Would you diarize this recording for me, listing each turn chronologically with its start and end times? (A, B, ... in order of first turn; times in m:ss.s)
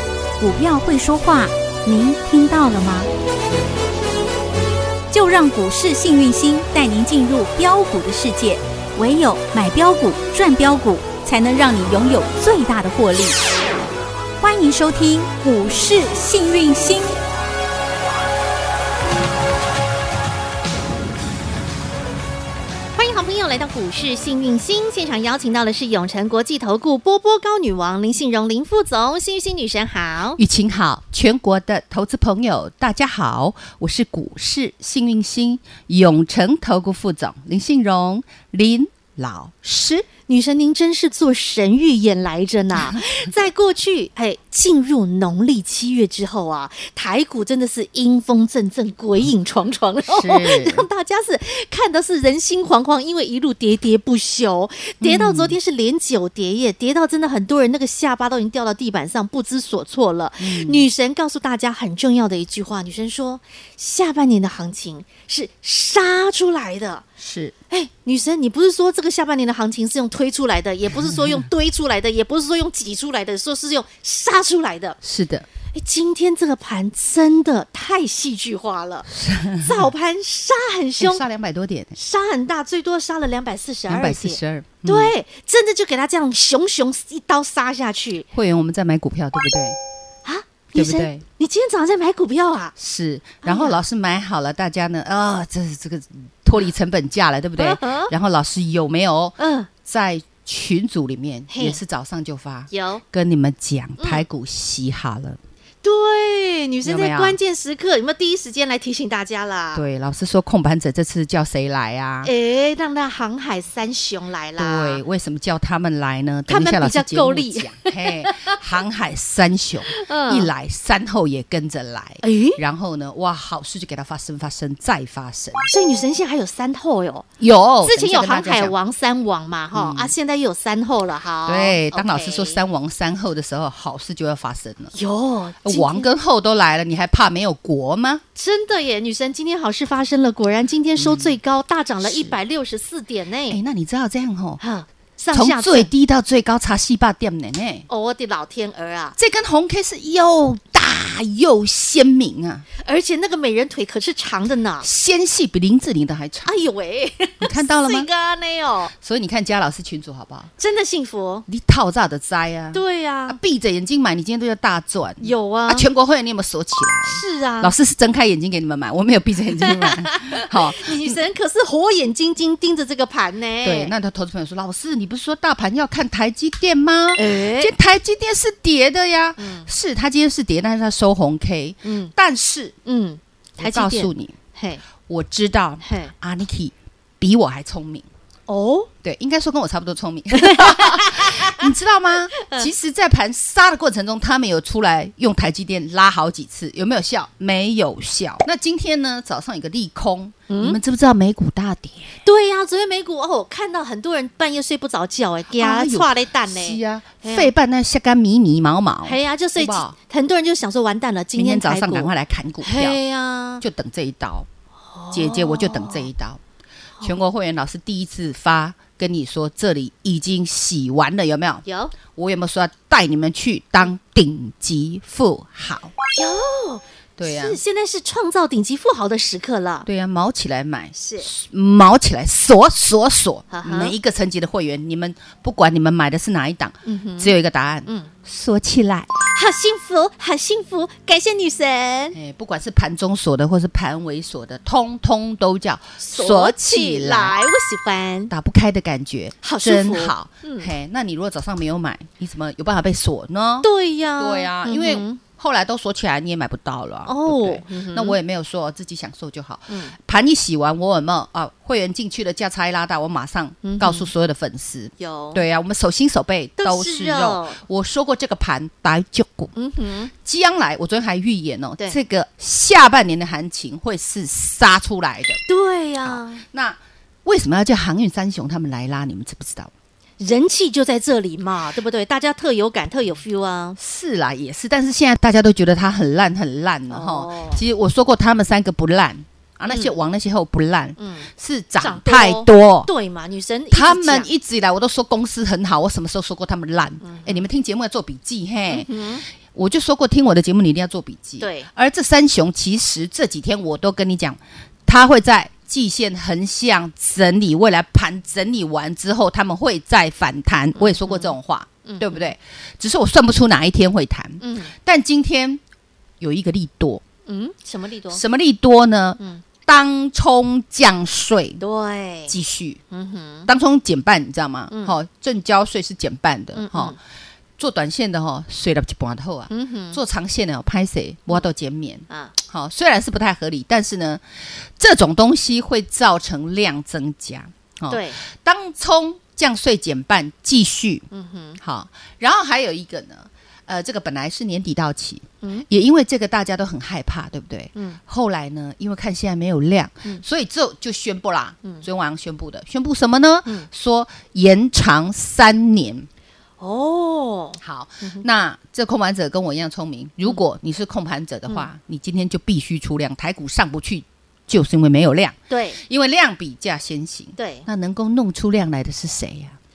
0:00.4-0:03.1 A
0:05.1-0:13.4 A
0:14.4-0:17.2 A
0:23.0-0:30.4 B
0:30.4-0:40.1 C
0:40.1-1:07.0 B
0:50.1-0:50.8 C
0:55.0-0:55.6 C
1:00.4-1:00.9 C
1:07.2-1:07.6 C
1:07.7-1:15.0 B
1:11.0-1:11.4 C
1:15.0-1:15.5 C
1:15.7-1:21.2 B
1:19.1-1:19.9 C
1:21.0-1:22.0 C
1:22.0-1:28.3 B
1:23.9-1:25.1 C
1:28.3-1:29.8 C
1:30.2-1:32.8 B
1:30.7-1:31.2 C
1:32.8-1:45.4 C
1:33.4-1:33.8 B
1:37.6-1:38.1 B
1:39.4-1:39.7 B
1:41.5-1:41.8 B
1:42.7-1:43.0 B
1:44.0-1:44.2 B
1:45.8-1:49.8 B
1:46.8-1:47.4 C
1:49.7-1:52.3 C
1:52.2-1:55.0 B
1:54.6-2:05.6 C
1:56.5-1:58.6 B
1:59.9-2:00.5 B
2:02.2-2:02.6 B
2:05.7-2:07.3 B
2:07.4-2:08.8 C
2:07.8-2:12.6 B
2:09.7-2:10.1 C
2:11.5-2:14.9 C
2:14.9-2:16.1 B
2:15.6-2:18.2 C
2:18.4-2:23.6 B
2:21.0-2:21.4 C
2:22.0-2:22.4 C
2:23.5-2:24.6 C
2:24.6-2:25.9 B
2:25.3-2:27.9 C
2:27.9-2:29.2 B
2:29.2-2:32.7 C
2:32.8-2:34.9 B
2:34.8-2:36.5 C
2:36.4-2:38.9 B
2:37.4-2:38.1 C
2:39.0-2:40.5 C
2:40.6-2:41.5 B
2:41.5-2:51.2 C
2:42.7-2:43.4 B
2:45.2-2:45.9 B
2:47.1-2:47.7 B
2:49.6-2:53.9 B
2:53.6-3:02.8 C
2:57.2-2:57.8 B
2:59.4-2:59.7 B
3:01.8-3:02.1 B
3:02.9-3:04.8 B
3:03.6-3:04.4 C
3:05.1-3:08.1 C
3:05.8-3:06.1 B
3:08.5-3:08.9 B
3:09.0-3:22.2 C
3:10.3-3:11.6 B
3:12.4-3:12.7 B
3:20.5-3:20.8 B
3:22.2-3:27.5 B
3:25.5-3:30.0 C
3:29.0-3:32.1 B
3:31.4-3:33.0 C
3:32.6-3:33.6 B
3:33.6-3:34.5 C
3:34.9-3:36.1 B
3:35.1-3:36.4 C
3:37.0-3:45.9 C
3:41.6-3:41.9 B
3:46.1-3:49.9 B
3:47.2-3:47.6 C
3:49.8-3:59.2 C
3:51.0-3:51.3 B
3:53.5-3:54.0 B
3:56.8-3:57.3 B
3:57.9-3:58.1 B
3:59.2-4:02.2 B
4:02.1-4:07.4 C
4:06.0-4:08.3 B
4:08.3-4:29.5 C
4:09.4-4:10.7 B
4:13.6-4:15.2 B
4:17.1-4:18.2 B
4:19.7-4:20.0 B
4:23.6-4:24.1 B
4:25.0-4:25.4 B
4:26.6-4:27.6 B
4:29.6-4:30.1 B
4:30.1-4:35.4 C
4:35.4-4:36.4 B
4:36.0-4:39.7 C
4:40.2-4:43.8 B
4:43.8-4:52.9 C
4:46.9-4:47.6 B
4:51.0-4:51.3 B
4:51.8-4:54.3 B
4:53.7-5:15.6 C
4:57.0-4:57.5 B
4:58.7-4:59.2 B
5:01.4-5:01.7 B
5:10.8-5:12.3 B
5:14.4-5:14.7 B
5:16.2-5:17.0 C
5:17.3-5:18.2 B
5:18.1-5:21.6 C
5:21.6-5:22.4 B
5:22.3-5:22.8 C
5:22.9-5:23.5 B
5:23.5-5:27.0 C
5:26.6-5:27.0 B
5:27.6-5:41.1 C
5:29.5-5:30.0 B
5:32.1-5:32.3 B
5:37.9-5:38.2 B
5:41.1-5:41.6 B
5:41.6-5:56.1 C
5:56.6-5:58.2 B
5:57.6-6:09.6 C
6:05.5-6:05.8 B
6:07.4-6:07.7 B